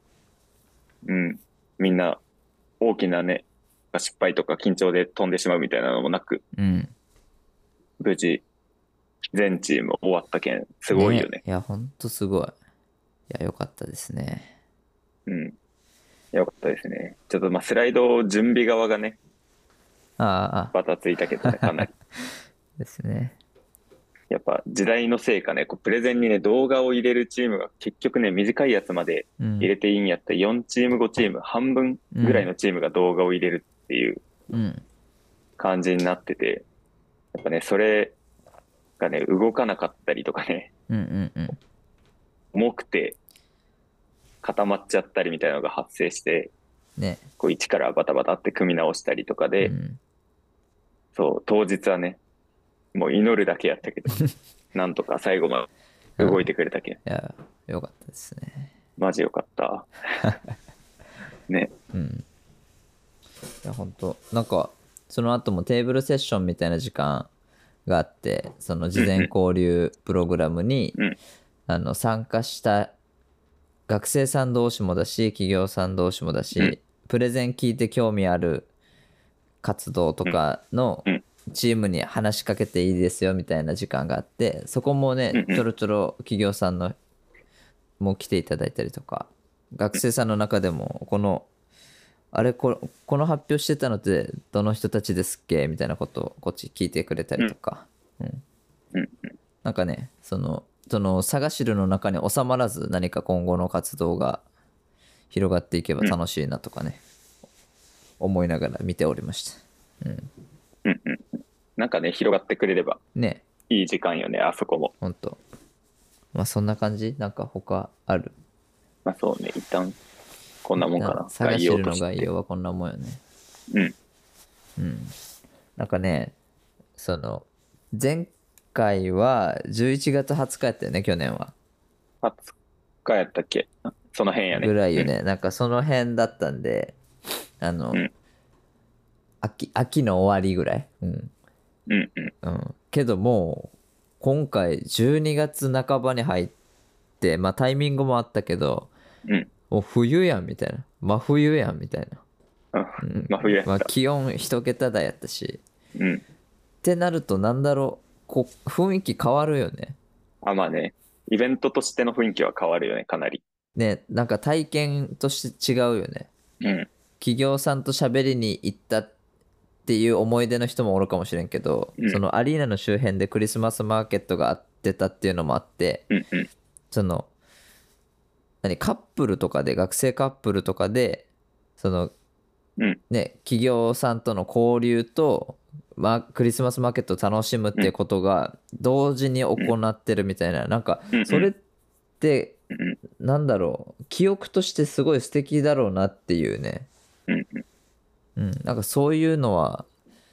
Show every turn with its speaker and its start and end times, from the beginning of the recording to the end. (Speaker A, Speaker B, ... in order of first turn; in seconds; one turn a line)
Speaker A: 1.1-2.2
Speaker A: 2.8-6.4
Speaker B: 6.6-6.9
Speaker A: 8.0-8.4
Speaker A: 9.3-11.4
Speaker B: 10.9-12.6
Speaker B: 13.3-14.5
Speaker A: 15.3-15.6
Speaker A: 16.3-19.2
Speaker B: 20.2-20.7
Speaker A: 20.7-21.9
Speaker B: 21.4-21.9
Speaker B: 22.8-23.4
Speaker A: 24.3-34.2
Speaker B: 29.4-29.7
Speaker B: 32.1-32.5
Speaker B: 34.5-34.8
Speaker A: 35.6-36.6
Speaker A: 37.3-38.1
Speaker A: 39.0-40.7
Speaker B: 40.9-41.6
Speaker A: 42.5-43.2
Speaker A: 44.4-46.5
Speaker B: 47.0-47.2
Speaker A: 47.4-49.7
Speaker B: 49.6-50.0
Speaker A: 51.1-52.2
Speaker A: 52.9-54.2
Speaker A: 54.7-55.7
Speaker B: 56.2-56.5
Speaker A: 56.2-57.0
Speaker B: 57.0-58.7
Speaker A: 59.0-59.9
Speaker B: 61.9-62.2
Speaker B: 63.6-67.3
Speaker B: 67.9-71.0
Speaker A: 69.0-69.3
Speaker B: 71.7-72.9
Speaker B: 73.9-78.7
Speaker B: 79.6-87.0
Speaker A: 85.3-85.6
Speaker B: 88.0-91.5
Speaker B: 92.3-98.4
Speaker A: 98.9-99.3
Speaker B: 99.6-104.4
Speaker B: 105.3-107.0
Speaker B: 108.2-110.3
Speaker A: 110.8-113.0
Speaker B: 113.2-113.4
Speaker A: 113.7-114.9
Speaker B: 115.0-115.4
Speaker B: 116.3-118.3
Speaker A: 119.0-120.0
Speaker A: 120.6-122.3
Speaker B: 121.0-123.2
Speaker B: 124.8-125.1
Speaker B: 125.8-126.3
Speaker B: 127.0-131.5
Speaker A: 132.2-135.1
Speaker B: 134.5-137.0
Speaker B: 137.6-138.1
Speaker B: 139.4-141.3
Speaker A: 141.9-142.3
Speaker B: 142.4-146.6
Speaker B: 147.2-148.9
Speaker B: 149.7-152.2
Speaker A: 152.7-153.9
Speaker B: 153.0-155.6
Speaker A: 156.0-156.2
Speaker B: 156.8-160.0
Speaker A: 160.4-163.4
Speaker B: 163.8-166.3
Speaker A: 166.6-166.9
Speaker B: 167.2-169.1
Speaker B: 169.9-176.1
Speaker A: 176.1-176.5
Speaker B: 176.9-177.3
Speaker B: 178.6-181.3
Speaker B: 181.8-182.1
Speaker B: 183.1-191.6
Speaker A: 191.1-191.5
Speaker B: 192.2-192.6
Speaker A: 192.7-193.0
Speaker B: 193.2-196.9
Speaker A: 197.3-197.6
Speaker B: 198.4-199.9